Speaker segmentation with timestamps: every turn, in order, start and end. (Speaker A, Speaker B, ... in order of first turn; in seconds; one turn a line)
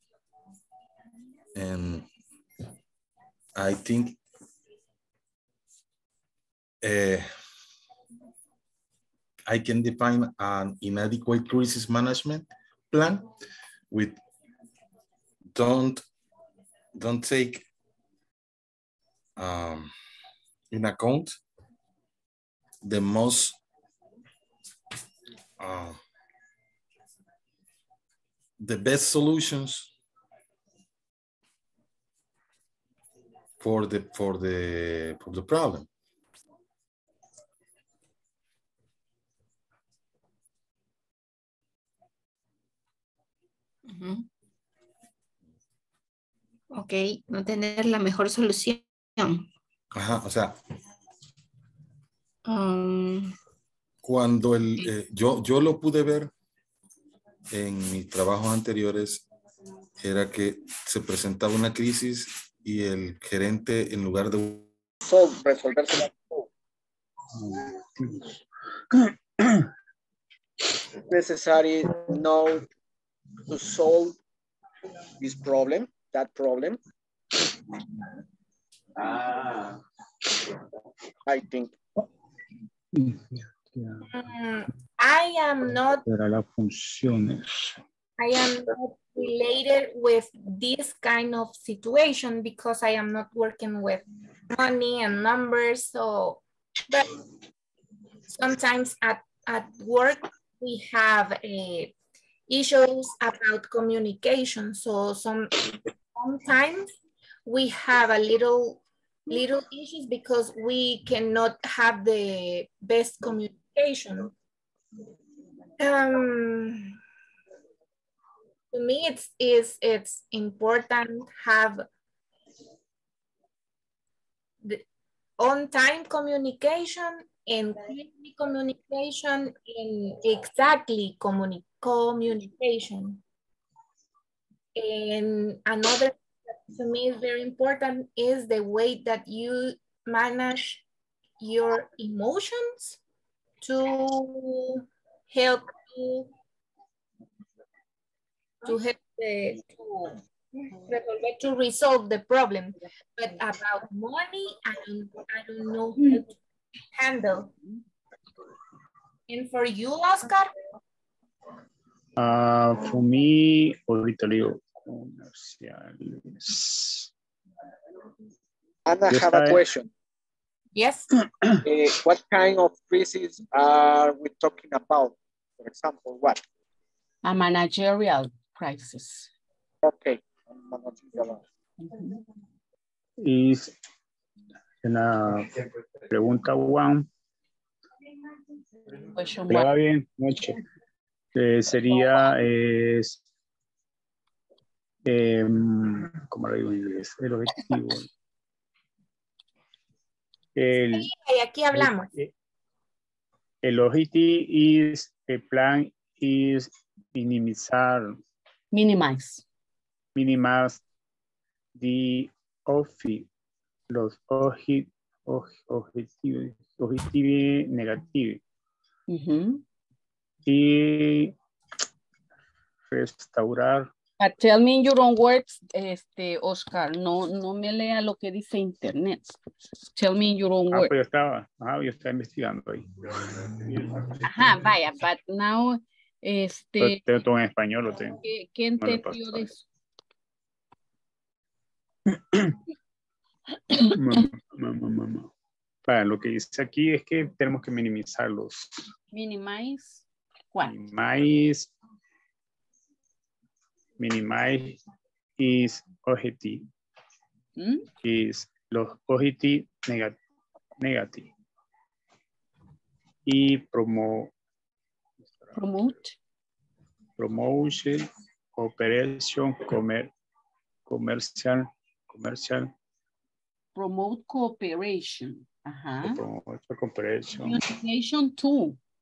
Speaker A: 1.5-2.1
Speaker A: 3.5-4.2
Speaker A: 6.8-7.3
Speaker A: 9.5-13.3
Speaker A: 13.9-14.2
Speaker A: 15.5-16.0
Speaker A: 16.9-17.6
Speaker A: 19.4-19.9
Speaker A: 20.7-21.3
Speaker A: 22.8-23.6
Speaker A: 25.6-26.0
Speaker A: 28.6-29.9
Speaker A: 33.6-35.9
Speaker B: 43.9-44.2
Speaker B: 46.7-49.4
Speaker A: 49.9-50.5
Speaker B: 52.5-53.3
Speaker A: 54.0-56.3
Speaker A: 57.5-59.2
Speaker A: 60.0-64.7
Speaker C: 65.0-66.5
Speaker D: 67.4-68.2
Speaker C: 71.1-72.7
Speaker C: 73.5-74.2
Speaker C: 75.2-76.8
Speaker C: 79.0-79.6
Speaker C: 81.2-81.7
Speaker D: 82.9-84.0
Speaker E: 84.1-86.0
Speaker D: 86.0-87.8
Speaker E: 88.2-97.1
Speaker E: 98.3-101.9
Speaker E: 102.5-106.9
Speaker E: 107.5-114.3
Speaker E: 115.8-117.0
Speaker E: 118.7-121.8
Speaker E: 125.4-133.2
Speaker E: 134.8-140.8
Speaker E: 141.4-143.0
Speaker E: 143.6-146.3
Speaker E: 148.7-150.2
Speaker E: 150.8-156.3
Speaker E: 156.9-157.5
Speaker E: 159.3-160.5
Speaker D: 162.2-166.9
Speaker C: 168.8-169.9
Speaker D: 169.1-169.6
Speaker E: 170.7-171.1
Speaker C: 171.6-176.4
Speaker F: 177.2-179.3
Speaker C: 179.8-181.4
Speaker F: 181.8-182.2
Speaker D: 183.2-183.7
Speaker D: 184.8-185.6
Speaker D: 186.1-187.1
Speaker F: 189.1-189.7
Speaker D: 189.5-190.6
Speaker D: 191.3-193.2
Speaker F: 191.9-192.2
Speaker D: 195.1-198.1
Speaker D: 200.5-201.1
Speaker E: 200.9-202.1
Speaker D: 201.7-202.3
Speaker D: 203.6-208.2
Speaker F: 208.7-209.4
Speaker D: 210.2-210.8
Speaker D: 211.8-213.3
Speaker D: 213.9-218.4
Speaker F: 219.1-219.6
Speaker D: 220.4-221.3
Speaker D: 222.9-223.9
Speaker F: 224.2-229.4
Speaker F: 229.9-230.9
Speaker D: 230.7-234.7
Speaker F: 234.2-237.0
Speaker D: 236.8-238.2
Speaker F: 238.0-239.6
Speaker D: 238.8-239.5
Speaker D: 242.1-242.5
Speaker D: 243.9-245.3
Speaker D: 245.9-248.8
Speaker F: 249.1-250.8
Speaker D: 250.6-251.7
Speaker D: 254.0-254.8
Speaker D: 255.4-256.7
Speaker F: 257.6-257.9
Speaker D: 258.0-260.2
Speaker D: 260.8-261.3
Speaker D: 263.2-264.3
Speaker F: 265.6-266.1
Speaker D: 267.2-270.1
Speaker D: 270.9-272.7
Speaker F: 273.7-276.2
Speaker D: 276.0-277.6
Speaker F: 277.4-278.8